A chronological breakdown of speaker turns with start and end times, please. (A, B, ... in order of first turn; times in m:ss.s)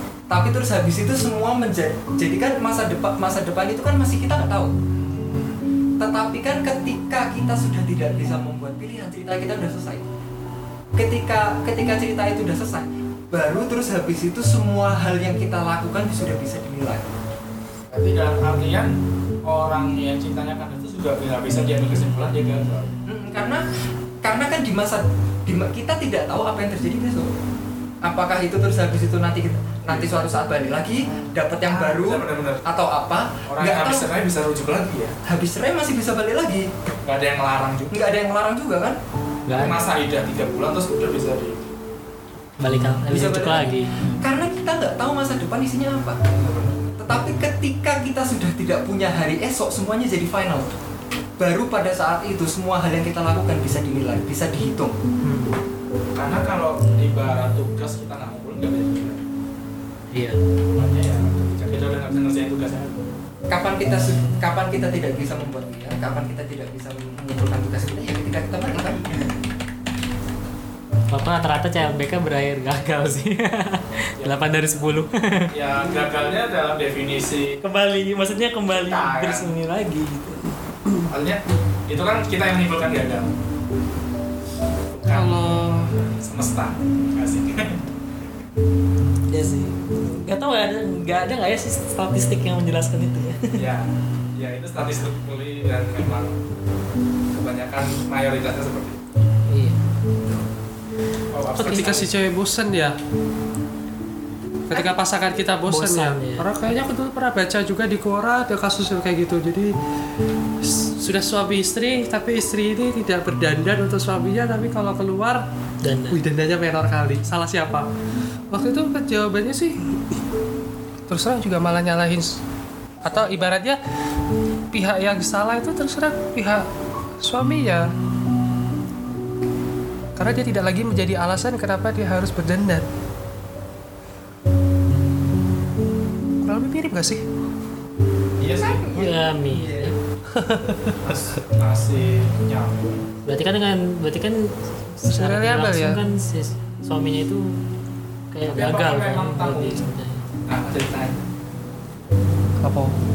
0:00.3-0:04.7 A
0:04.9-0:05.6 B
0:06.0-0:10.0 A
0:10.9-0:17.0 A
0:17.9-0:18.9 B
0:19.4-0:23.0 B
0:23.0-0:23.6 A
0:24.2-0:27.3 A
0:28.0-0:34.1 A
0:29.8-0:32.6 B
0:33.5-0:35.1 B
0:35.2-0:36.7 A
0:37.0-0:38.0 B
0:37.9-0:39.0 A
0:39.5-0:41.7 B
0:39.5-0:39.8 C
0:42.6-0:43.9 C
0:43.1-0:46.2 A
0:46.2-0:46.9 B
0:47.0-0:50.7 A
0:51.4-0:55.0 A
0:55.2-0:55.5 C
0:56.1-0:59.2 B
1:00.1-1:00.4 C
1:00.7-1:03.1 B
1:03.5-1:09.0 A
1:11.1-1:15.5 C
1:14.2-1:17.6 B
1:17.6-1:20.5 C
1:18.7-1:19.5 B
1:21.1-1:23.3 B
1:24.9-1:27.8 B
1:25.1-1:25.9 D
1:29.3-1:33.6 C
1:33.5-1:36.4 B
1:37.3-1:39.0 B
1:39.5-1:39.8 C
1:41.3-1:42.1 B
1:41.6-1:41.9 C
1:41.6-1:42.9 D
1:44.7-1:49.7 D
1:44.7-1:45.0 C
1:45.6-1:46.4 C
1:50.6-1:55.4 D
1:55.8-1:56.2 C
1:56.1-1:57.8 D
1:58.5-1:59.8 D
2:01.1-2:02.4 D
2:03.0-2:03.8 D
2:04.7-2:06.6 D
2:07.2-2:07.9 D
2:10.2-2:12.8 D
2:16.4-2:17.2 D
2:18.4-2:19.0 B
2:18.6-2:19.9 A
2:18.9-2:20.0 C
2:20.3-2:20.9 D
2:21.0-2:23.1 B
2:23.2-2:27.6 C
2:25.1-2:26.0 D
2:28.3-2:30.2 C
2:28.4-2:29.9 B
2:30.4-2:31.2 B
2:32.6-2:32.9 D